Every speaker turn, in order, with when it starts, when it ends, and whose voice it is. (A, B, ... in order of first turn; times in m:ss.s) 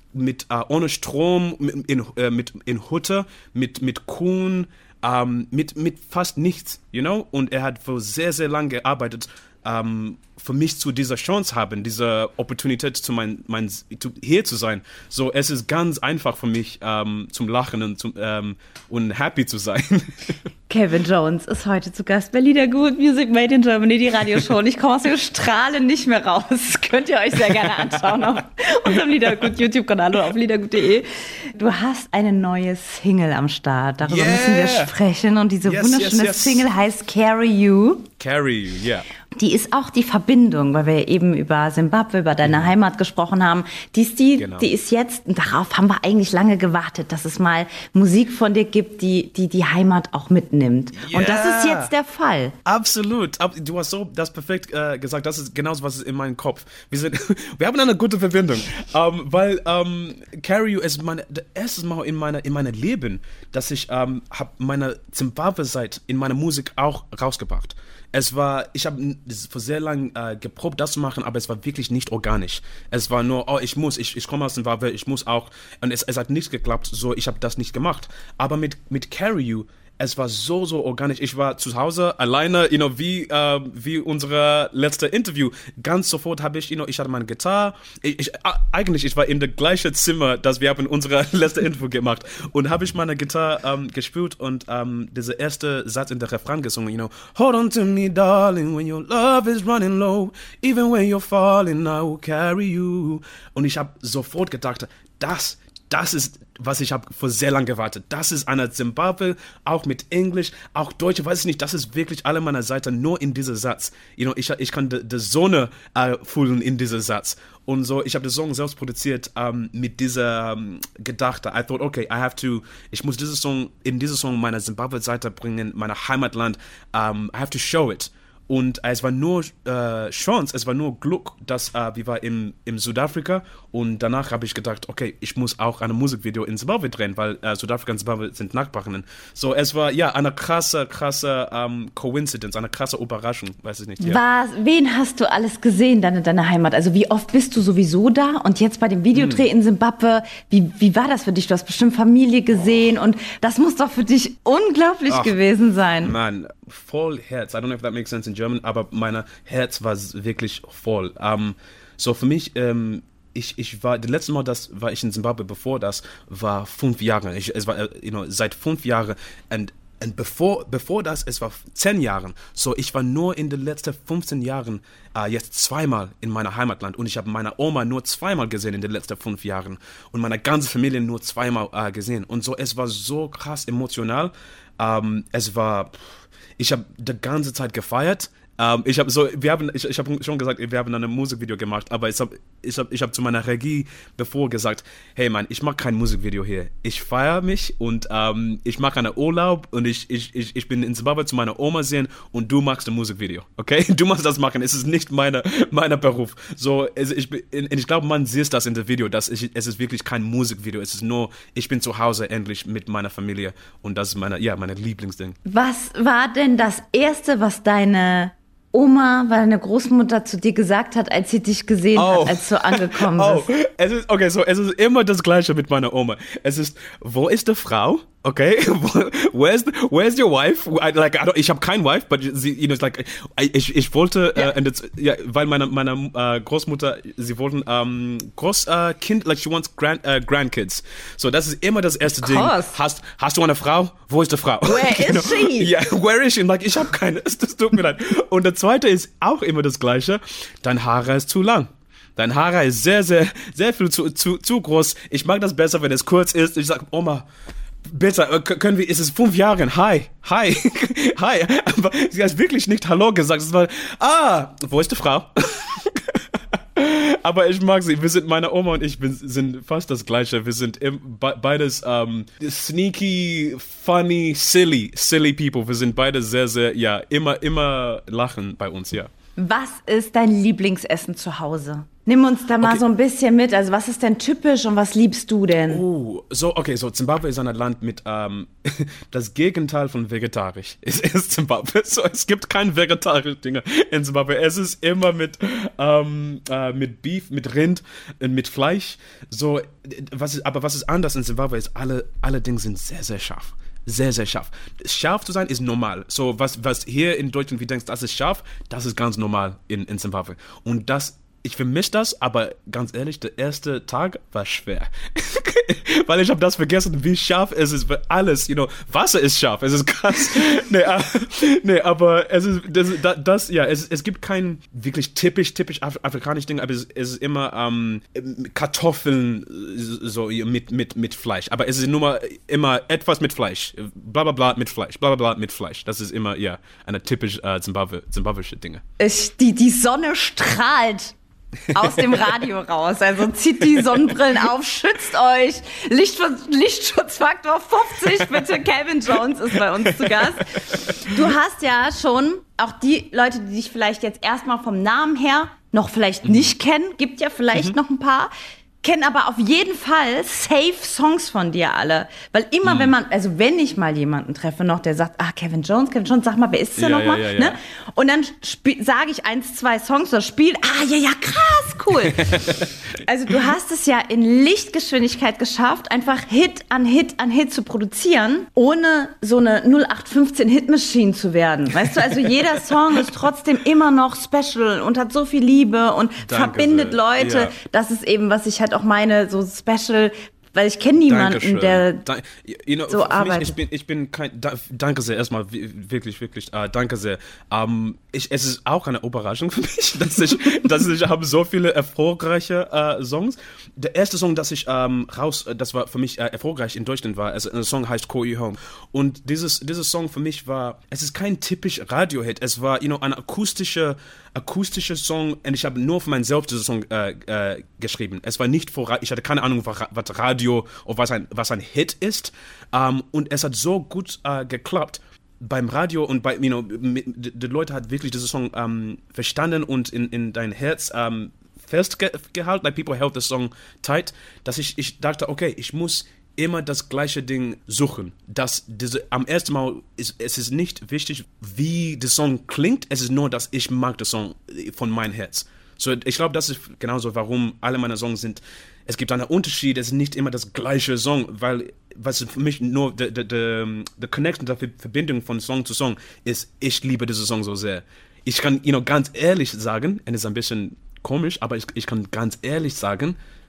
0:00.2-0:20.4 A
0:20.7-0:38.1 B
0:34.0-0:34.9 A
0:35.6-0:36.7 A
0:38.2-0:39.1 A
0:39.4-0:52.6 B
0:42.4-0:42.7 A
0:44.4-0:44.7 A
0:50.9-0:51.9 A
0:52.7-2:24.2 A
2:24.0-2:36.2 B
2:29.1-2:29.5 A
2:35.1-2:35.4 A
2:36.0-3:35.4 A
3:35.5-3:43.5 B
3:42.0-4:17.3 A
4:02.2-4:02.8 B
4:04.6-4:05.7 B
4:17.9-4:39.1 A
4:39.4-4:45.8 B
4:45.7-5:38.8 A
5:39.0-5:41.2 B
5:41.7-5:58.3 B
5:49.8-5:51.2 A
5:56.2-5:56.5 A
5:58.8-6:12.4 B
6:02.6-6:02.9 A
6:06.8-6:07.6 A
6:12.1-6:12.7 A
6:13.0-6:32.0 B
6:21.9-6:23.1 A
6:26.2-6:27.5 A
6:31.1-7:43.2 A
6:32.9-6:33.6 B